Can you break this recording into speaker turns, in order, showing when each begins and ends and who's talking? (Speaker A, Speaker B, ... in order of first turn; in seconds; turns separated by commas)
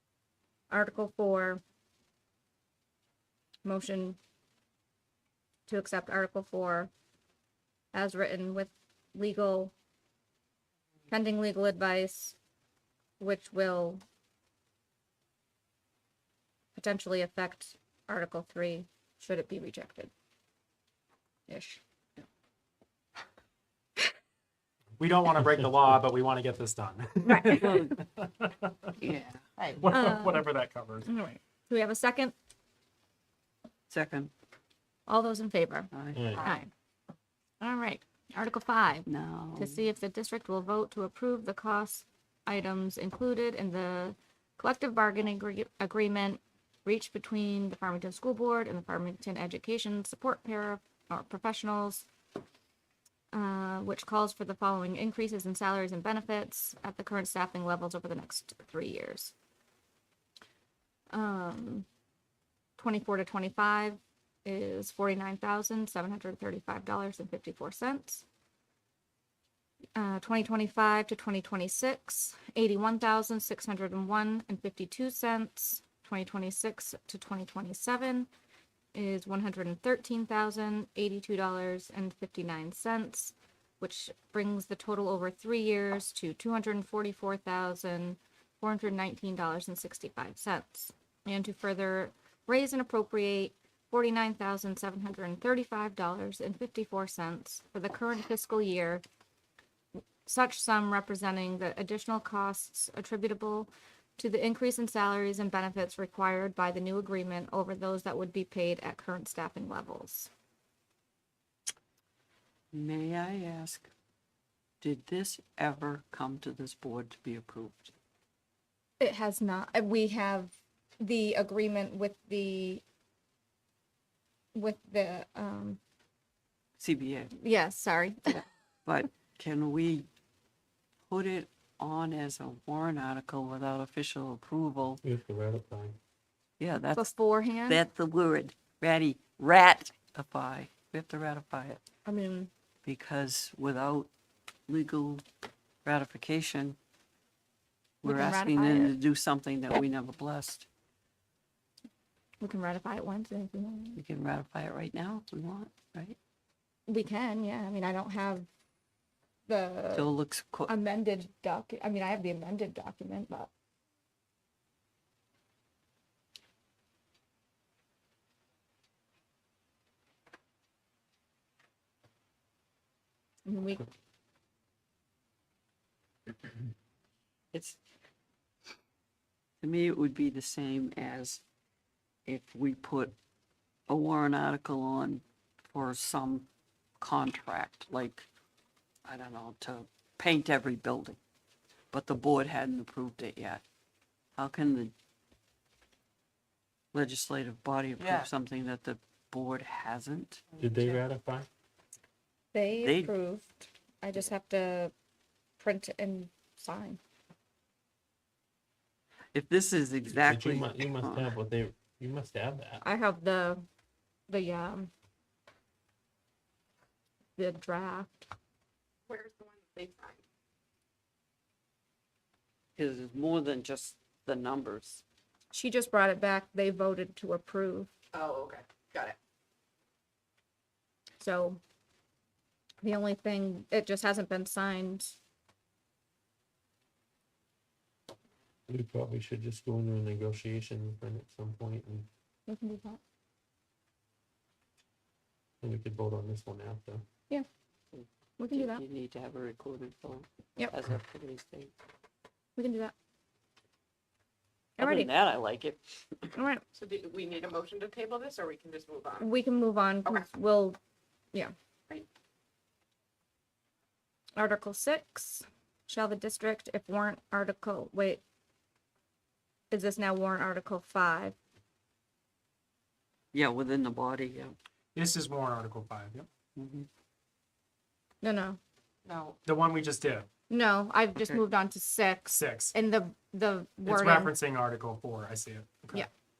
Speaker A: 0.7-1.6, Speaker A: 3.6-4.2, Speaker A: 5.7-6.9, Speaker A: 7.9-9.7, Speaker A: 11.1-12.3, Speaker A: 13.2-14.0, Speaker A: 16.7-20.1, Speaker A: 21.5-21.8, Speaker B: 25.0-28.9, Speaker A: 27.2-27.9, Speaker C: 29.0-29.4, Speaker B: 29.8-31.1, Speaker A: 29.9-30.4, Speaker A: 31.1-32.3, Speaker C: 33.9-34.3, Speaker A: 35.1-36.7, Speaker C: 35.9-36.2, Speaker D: 36.1-36.5, Speaker A: 37.6-52.0, Speaker C: 39.1-39.8, Speaker A: 53.3-59.3, Speaker A: 61.1-61.9, Speaker A: 62.8-68.2, Speaker A: 70.0-78.3, Speaker A: 78.9-99.0, Speaker A: 100.2-110.3, Speaker C: 112.7-113.9, Speaker C: 114.8-117.9, Speaker A: 119.0-122.8, Speaker A: 124.5-125.8, Speaker C: 126.8-127.3, Speaker A: 127.3-128.4, Speaker C: 128.3-130.1, Speaker C: 131.1-135.0, Speaker D: 135.0-136.0, Speaker C: 136.6-137.1, Speaker A: 136.9-137.8, Speaker C: 137.7-141.8, Speaker A: 142.0-142.5, Speaker C: 142.8-144.1, Speaker C: 144.7-145.2, Speaker C: 145.8-146.8, Speaker A: 148.0-149.0, Speaker C: 148.0-150.7, Speaker A: 152.4-154.0, Speaker C: 153.9-156.2, Speaker A: 156.9-158.5, Speaker A: 159.5-160.1, Speaker C: 159.9-160.7, Speaker A: 160.7-163.5, Speaker A: 173.4-173.8, Speaker C: 177.5-177.8, Speaker C: 179.6-181.4, Speaker C: 182.3-183.1, Speaker C: 183.9-186.5, Speaker C: 187.0-188.3, Speaker C: 189.0-191.2, Speaker C: 191.9-193.6, Speaker C: 194.4-194.9, Speaker C: 196.9-200.4, Speaker D: 200.6-201.5, Speaker A: 202.5-204.9, Speaker C: 202.8-203.1, Speaker A: 205.6-207.0, Speaker C: 209.3-211.3, Speaker D: 210.1-212.8, Speaker A: 212.8-213.6, Speaker A: 214.3-214.9, Speaker A: 217.4-218.3, Speaker E: 219.1-220.2, Speaker C: 222.8-225.0, Speaker A: 225.5-227.9, Speaker E: 228.1-229.2, Speaker A: 231.2-231.6, Speaker A: 232.8-235.2, Speaker D: 238.7-242.1, Speaker A: 242.5-243.0, Speaker D: 245.6-247.0, Speaker C: 247.9-251.7, Speaker A: 248.4-248.8, Speaker A: 252.6-252.9, Speaker A: 254.8-255.1, Speaker C: 254.8-256.3, Speaker A: 256.3-256.6, Speaker E: 256.8-259.2, Speaker A: 259.2-260.8, Speaker A: 264.4-268.2, Speaker A: 269.7-271.4, Speaker C: 273.3-274.6, Speaker B: 274.9-276.3, Speaker C: 276.6-276.9, Speaker A: 278.2-278.6, Speaker E: 279.1-279.4, Speaker B: 279.4-280.3, Speaker A: 280.5-284.3, Speaker B: 282.3-282.7, Speaker B: 283.8-286.1